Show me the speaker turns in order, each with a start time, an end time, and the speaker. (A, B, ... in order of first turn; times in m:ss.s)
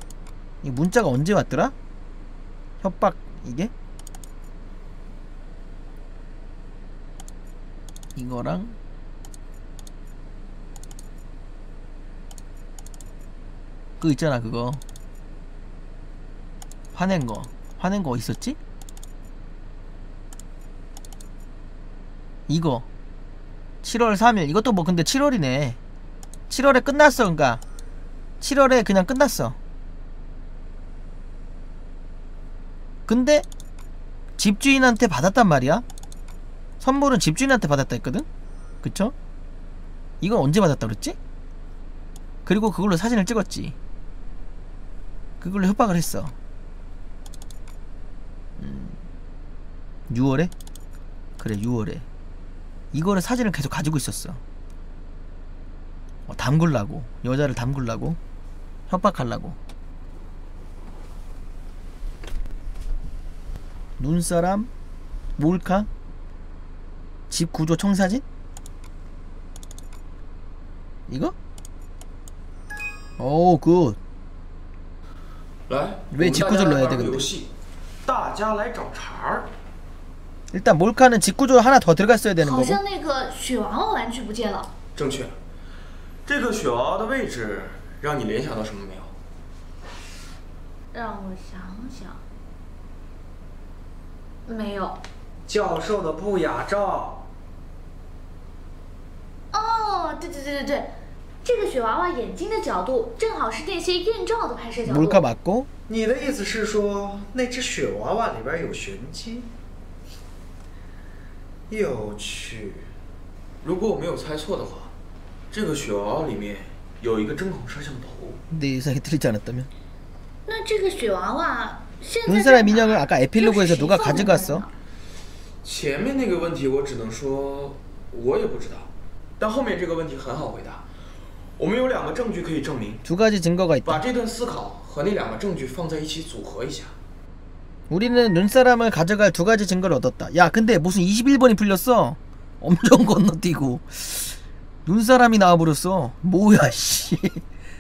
0:00.6-0:01.7 A
0:02.8-0:03.7 A
0:08.2-0:08.8 A
0:14.0-0:14.8 A
0:16.9-0:18.6 A
0:22.5-0:22.9 A
0:23.8-0:25.8 A
0:26.5-0:27.6 A
0:28.4-0:29.6 A
0:33.1-0:33.5 A
0:34.4-0:35.8 A
0:36.8-0:38.3 A
0:38.8-0:39.1 A
0:40.2-0:41.2 A
0:42.5-0:43.8 A
0:45.4-0:46.4 A
0:48.6-0:49.0 A
0:50.1-0:50.5 A
0:51.4-0:52.0 A
0:52.9-0:54.4 A
0:56.3-0:58.2 A
0:58.9-0:59.6 A
1:04.0-1:04.7 A
1:05.4-1:05.9 A
1:07.3-1:08.2 A
1:11.1-1:11.3 A
1:13.2-1:14.0 A
1:15.7-1:17.5 B
1:16.1-1:17.3 A
1:18.0-1:19.5 B
1:20.5-1:22.8 A
1:22.4-1:24.7 C
1:25.0-1:25.4 B
1:26.3-1:29.1 B
1:30.9-1:32.2 C
1:34.5-1:35.0 C
1:35.5-1:37.2 D
1:39.5-1:45.2 C
1:44.8-1:45.7 A
1:45.9-1:49.5 D
1:51.7-1:52.9 D
1:53.6-1:54.9 B
1:55.5-1:58.4 B
1:58.5-1:59.7 A
2:00.5-2:04.7 C
2:02.3-2:04.7 A
2:05.6-2:10.9 B
2:11.6-2:13.0 B
2:13.0-2:14.0 A
2:13.8-2:16.9 B
2:17.9-2:27.4 A